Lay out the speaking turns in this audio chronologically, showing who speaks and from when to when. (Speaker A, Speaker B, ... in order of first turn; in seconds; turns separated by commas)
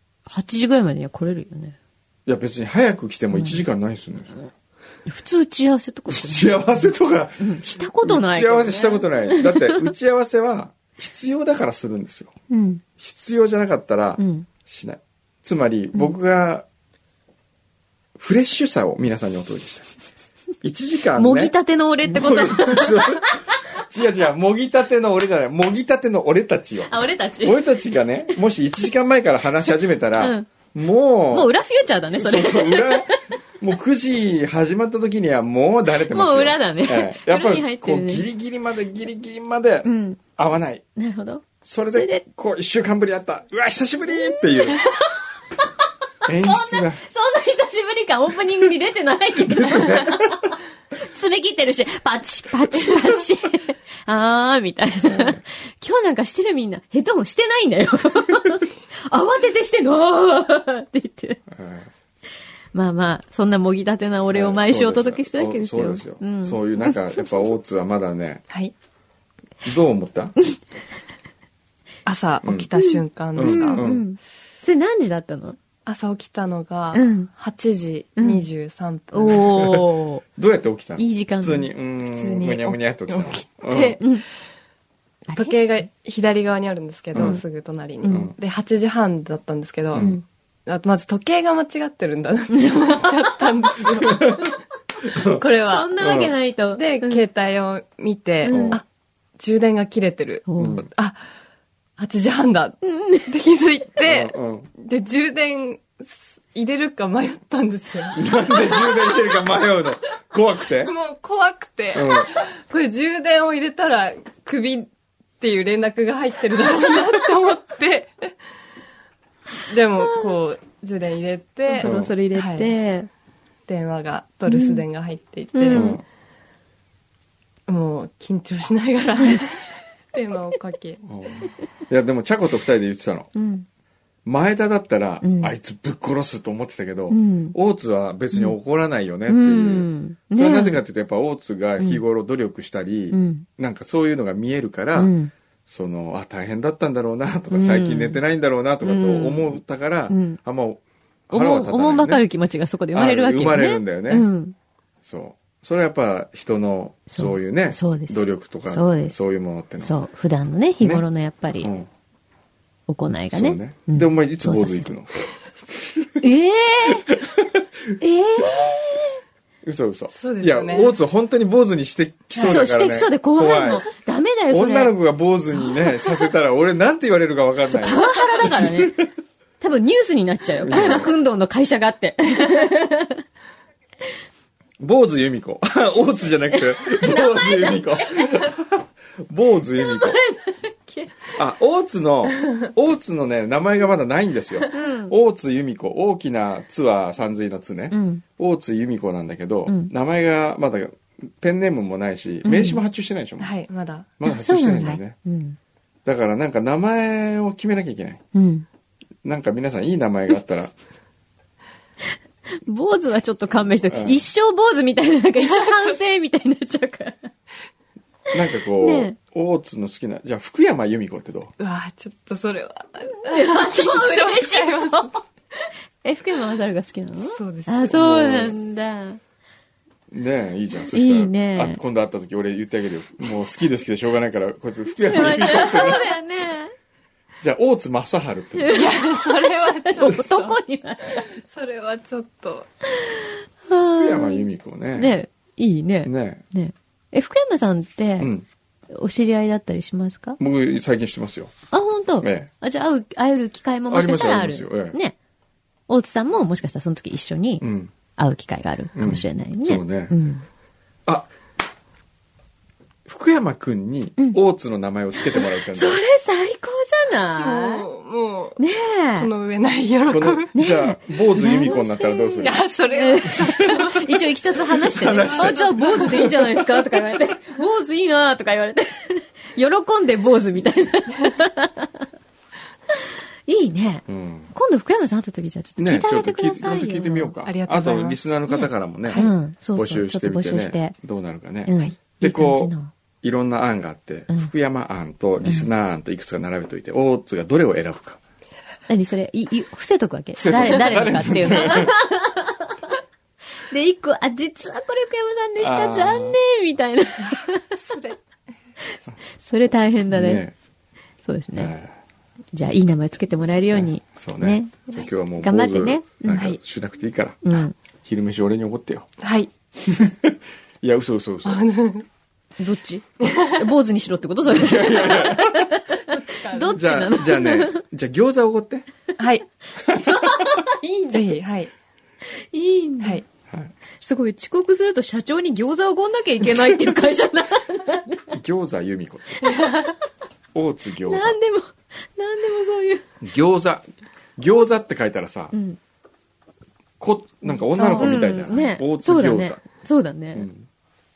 Speaker A: 0.3-1.8, Speaker B: 2.2-4.3, Speaker A: 3.3-3.6, Speaker A: 5.0-6.9, Speaker B: 6.1-12.3, Speaker A: 7.4-9.8, Speaker A: 12.5-12.8, Speaker B: 13.0-16.6, Speaker A: 14.2-14.5, Speaker B: 18.2-19.9, Speaker B: 20.6-21.5, Speaker A: 21.1-23.4, Speaker B: 22.0-31.5, Speaker A: 26.9-27.7, Speaker A: 30.2-30.5, Speaker A: 31.3-33.1, Speaker B: 32.1-40.8, Speaker A: 35.9-38.2, Speaker A: 39.8-40.2, Speaker A: 41.0-42.2, Speaker B: 41.6-44.8, Speaker A: 44.2-45.1, Speaker B: 46.2-47.0, Speaker A: 46.3-61.4, Speaker B: 49.4-50.5, Speaker B: 55.0-55.4, Speaker B: 61.5-61.9, Speaker A: 62.7-67.0, Speaker B: 64.3-68.4, Speaker B: 69.6-70.3, Speaker C: 72.0-73.9, Speaker B: 72.4-72.7, Speaker A: 72.8-75.6, Speaker B: 73.3-74.0, Speaker C: 75.8-79.5, Speaker A: 76.9-77.3, Speaker A: 79.1-80.2, Speaker B: 79.5-84.0, Speaker A: 81.0-81.7, Speaker C: 82.0-83.8, Speaker A: 83.7-84.2, Speaker A: 85.3-85.9, Speaker C: 85.3-90.1, Speaker B: 87.1-87.4, Speaker A: 88.0-88.3, Speaker B: 88.1-88.3, Speaker B: 89.9-90.2, Speaker A: 89.9-90.2, Speaker C: 90.7-94.5, Speaker B: 94.1-94.5, Speaker B: 95.0-95.4, Speaker C: 95.3-95.9, Speaker A: 95.6-97.2, Speaker B: 96.0-96.3, Speaker C: 96.7-98.9, Speaker A: 98.5-98.8, Speaker B: 98.5-98.8, Speaker C: 99.4-101.2, Speaker A: 100.5-100.8, Speaker B: 100.6-100.9, Speaker C: 102.0-109.3, Speaker A: 102.8-103.3, Speaker B: 104.0-104.7, Speaker B: 108.1-110.9, Speaker C: 110.8-114.9, Speaker B: 111.9-112.3, Speaker C: 115.4-118.3, Speaker C: 119.7-122.7, Speaker A: 121.7-123.1, Speaker B: 121.8-122.1, Speaker C: 123.7-126.0, Speaker A: 124.5-124.8, Speaker A: 125.5-126.0, Speaker B: 125.7-126.0, Speaker C: 127.7-131.0, Speaker B: 131.1-133.3, Speaker A: 133.3-133.7, Speaker B: 134.2-145.1, Speaker A: 135.2-135.5, Speaker A: 137.1-137.6, Speaker A: 139.3-140.8, Speaker A: 143.1-143.4, Speaker A: 144.9-145.3, Speaker B: 145.7-152.2, Speaker A: 147.5-148.2, Speaker A: 148.8-149.6, Speaker A: 150.1-150.4, Speaker A: 151.3-154.5, Speaker B: 152.9-154.3, Speaker B: 155.0-159.9, Speaker A: 157.1-159.2, Speaker A: 159.8-161.7, Speaker B: 161.6-161.9, Speaker A: 162.9-164.9, Speaker B: 163.3-166.1, Speaker A: 166.2-167.1, Speaker B: 167.1-168.4, Speaker A: 168.0-169.2, Speaker B: 169.6-173.9, Speaker C: 170.1-170.9, Speaker A: 172.4-174.9, Speaker B: 174.5-179.1, Speaker A: 175.5-176.1, Speaker A: 177.7-179.0, Speaker A: 179.6-183.2, Speaker B: 180.6-181.1, Speaker B: 184.8-190.2, Speaker A: 186.8-188.5, Speaker A: 189.8-191.3, Speaker B: 191.3-203.5, Speaker A: 194.7-195.1, Speaker A: 197.9-198.2, Speaker A: 199.7-199.9, Speaker A: 202.4-202.8, Speaker C: 203.4-204.1, Speaker B: 204.2-205.2, Speaker A: 204.2-205.6, Speaker B: 206.0-208.2, Speaker A: 208.3-208.7, Speaker B: 209.2-210.7, Speaker A: 212.6-217.3, Speaker B: 213.9-214.2, Speaker C: 215.4-216.0, Speaker A: 218.3-219.2, Speaker B: 218.3-221.5, Speaker C: 221.6-225.2, Speaker A: 223.2-229.2, Speaker C: 227.3-228.0, Speaker B: 227.9-228.6, Speaker B: 230.1-236.1, Speaker A: 230.9-231.8, Speaker A: 234.9-236.7, Speaker B: 237.4-238.9, Speaker A: 238.6-241.3, Speaker C: 238.7-240.6, Speaker C: 241.3-242.7, Speaker A: 242.9-248.3, Speaker B: 243.7-245.2, Speaker B: 246.0-246.4, Speaker B: 248.2-248.5, Speaker A: 248.9-250.4, Speaker B: 250.4-251.5, Speaker A: 251.7-255.2, Speaker B: 252.2-252.5, Speaker B: 253.9-255.0, Speaker A: 255.9-257.6, Speaker B: 257.6-257.9, Speaker A: 258.2-260.4, Speaker B: 258.9-260.1, Speaker B: 263.1-266.0, Speaker A: 265.3-267.8, Speaker C: 267.4-268.6, Speaker A: 268.6-269.3, Speaker C: 269.2-270.5, Speaker B: 270.1-272.6, Speaker A: 270.5-282.1, Speaker C: 272.4-274.1, Speaker B: 273.3-273.8, Speaker B: 274.8-276.1, Speaker C: 275.1-276.6, Speaker A: 283.4-287.3, Speaker B: 284.1-284.5, Speaker B: 285.8-298.2, Speaker C: 287.4-289.3, Speaker A: 289.1-290.9, Speaker A: 291.6-292.9, Speaker A: 295.4-295.7, Speaker A: 298.9-303.0, Speaker B: 300.4-302.0, Speaker A: 303.6-307.8, Speaker B: 305.6-306.4, Speaker C: 307.8-308.2, Speaker A: 308.9-310.4, Speaker B: 310.1-310.5, Speaker A: 311.2-311.7, Speaker B: 311.6-311.9, Speaker A: 312.5-316.4, Speaker B: 313.7-317.5, Speaker C: 316.3-316.6, Speaker A: 317.4-317.7, Speaker B: 318.0-319.1, Speaker C: 319.2-319.5, Speaker B: 319.8-321.6, Speaker C: 321.4-322.1, Speaker A: 322.6-327.8, Speaker C: 323.2-323.7, Speaker B: 324.5-325.7, Speaker C: 326.1-327.1, Speaker B: 326.7-328.9, Speaker C: 329.2-329.4, Speaker B: 329.9-330.5, Speaker A: 329.9-331.4, Speaker C: 331.1-331.7, Speaker A: 332.3-333.2, Speaker A: 334.0-338.3, Speaker B: 338.3-339.5, Speaker A: 339.4-340.0, Speaker B: 340.5-341.4, Speaker A: 341.1-343.1, Speaker B: 343.2-345.5, Speaker A: 345.5-345.8, Speaker B: 347.0-349.6, Speaker A: 347.7-350.5, Speaker B: 350.3-350.7